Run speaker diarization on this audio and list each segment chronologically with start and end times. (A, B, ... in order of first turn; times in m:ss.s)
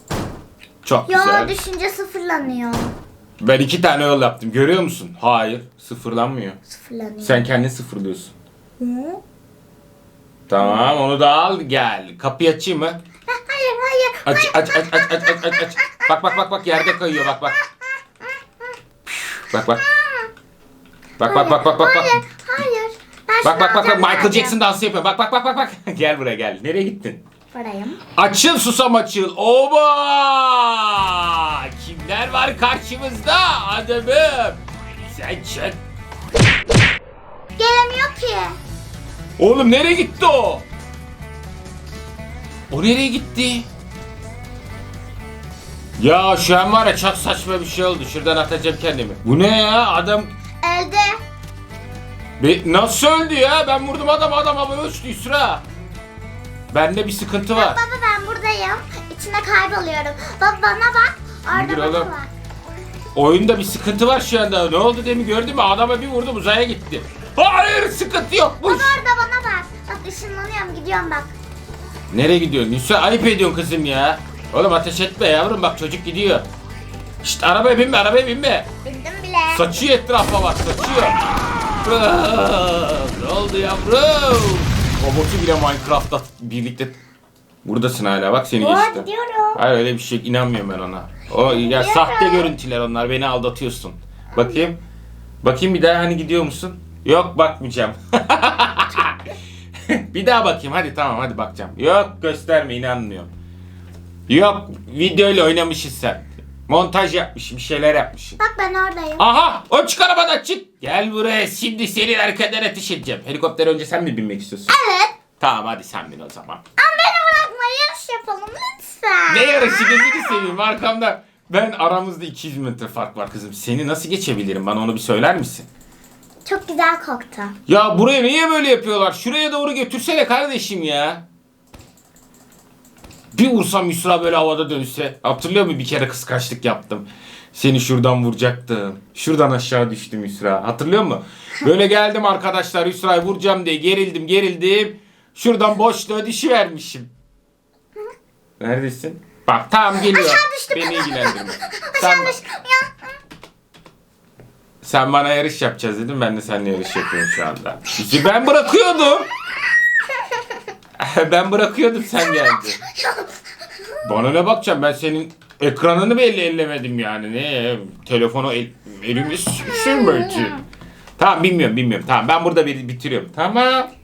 0:00.8-0:01.6 A
0:01.1-0:03.0 B
0:03.4-0:06.6 A
0:06.7-0:07.5 B
0:07.2-0:08.3 A
0:08.8-0:09.2 B
0:10.5-0:13.0 A
0:10.6-0:10.9 B
0:13.3-0:16.2 B
0:14.2-0:17.6 A
0:18.2-0:18.7 B
0:19.5-0:19.8 A
0:19.6-0:20.3 B
0:21.2-0:24.6 B
0:21.2-0:22.2 A
0:23.4-0:27.2 A
0:27.5-0:28.0 B
0:28.2-0:35.8 A
0:37.6-0:38.6 B
0:39.4-0:40.6 A
0:42.7-0:43.6 A
0:46.0-0:50.3 A
0:50.6-0:51.2 B
0:52.4-0:55.6 A
0:56.7-0:57.8 A
0:57.6-1:02.3 B
1:01.5-1:02.1 A
1:03.2-1:09.0 A
1:08.6-1:11.3 B
1:12.1-1:16.5 A
1:17.2-1:18.7 A
1:18.8-1:19.7 B
1:19.5-1:21.2 A
1:21.8-1:26.9 A
1:27.6-1:34.8 A
1:28.6-1:29.6 B
1:31.4-1:32.5 B
1:34.3-1:34.7 B
1:35.4-1:39.2 A
1:39.9-1:43.3 A
1:44.3-1:48.4 A
1:48.4-1:49.3 B
1:49.2-1:54.8 A
1:54.7-1:55.1 B
1:55.4-1:56.6 A
1:56.8-2:00.5 B
1:59.3-2:05.7 A
2:06.4-2:07.6 B
2:07.7-2:11.2 A
2:13.3-2:27.1 A
2:28.6-2:32.3 A
2:30.0-2:33.0 B
2:34.8-2:39.3 A
2:41.0-2:42.8 A
2:42.2-2:43.3 B
2:44.0-2:50.6 A
2:49.6-2:50.6 B
2:51.2-2:53.9 A